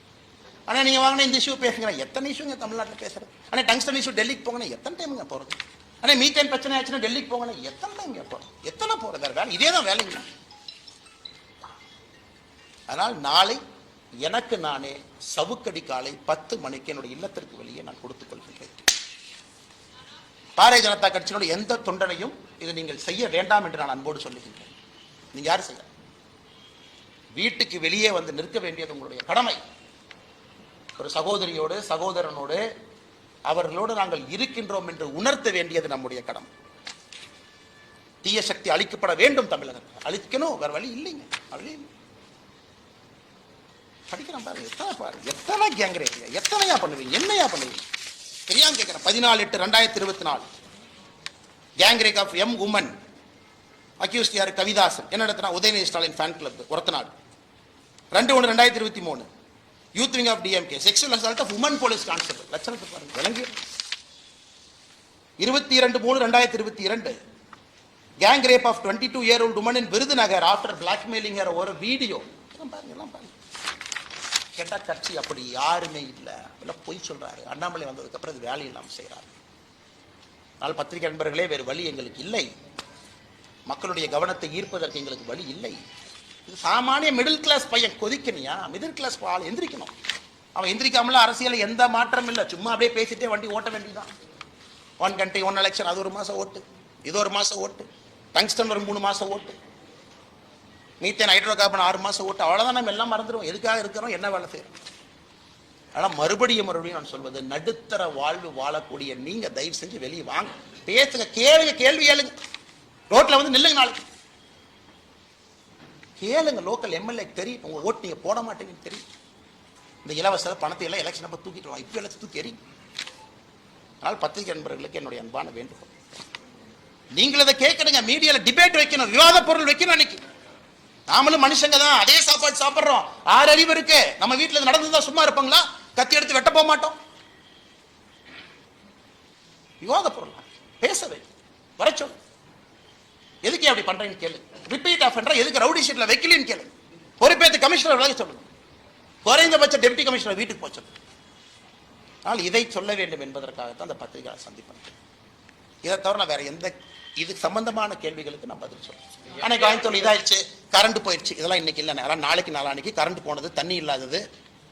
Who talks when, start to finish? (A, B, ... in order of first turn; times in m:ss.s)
0:00.7-0:10.3 A
0:12.9-0:13.6 A
0:14.2-0:18.8 A
0:20.6-0:24.7 A
0:25.3-0:25.9 A
0:27.4-0:29.6 A
0:31.0-0:32.6 A
0:33.5-0:36.5 A
0:38.2-0:41.9 A
0:44.1-0:47.8 A
0:48.5-0:50.5 A
0:51.8-0:52.9 A
0:54.0-0:57.1 A
0:58.1-0:59.2 A
1:00.0-1:03.6 A
1:05.4-1:07.2 A
1:08.2-1:13.3 A
1:14.6-1:19.3 A
1:20.6-1:22.5 A
1:23.7-1:25.8 A
1:26.5-1:29.9 A
1:30.6-1:34.1 A
1:35.0-1:39.6 A
1:41.0-1:44.7 A
1:46.0-1:52.3 A
1:53.1-1:54.0 A
1:56.2-1:59.0 A
2:00.0-2:02.6 A
2:04.0-2:05.9 A
2:07.1-2:10.2 A
2:11.1-2:17.0 A
2:19.8-2:21.2 A
2:21.8-2:22.2 A
2:23.4-2:28.4 A
2:29.2-2:30.9 A
2:32.2-2:34.9 A
2:35.8-2:44.2 A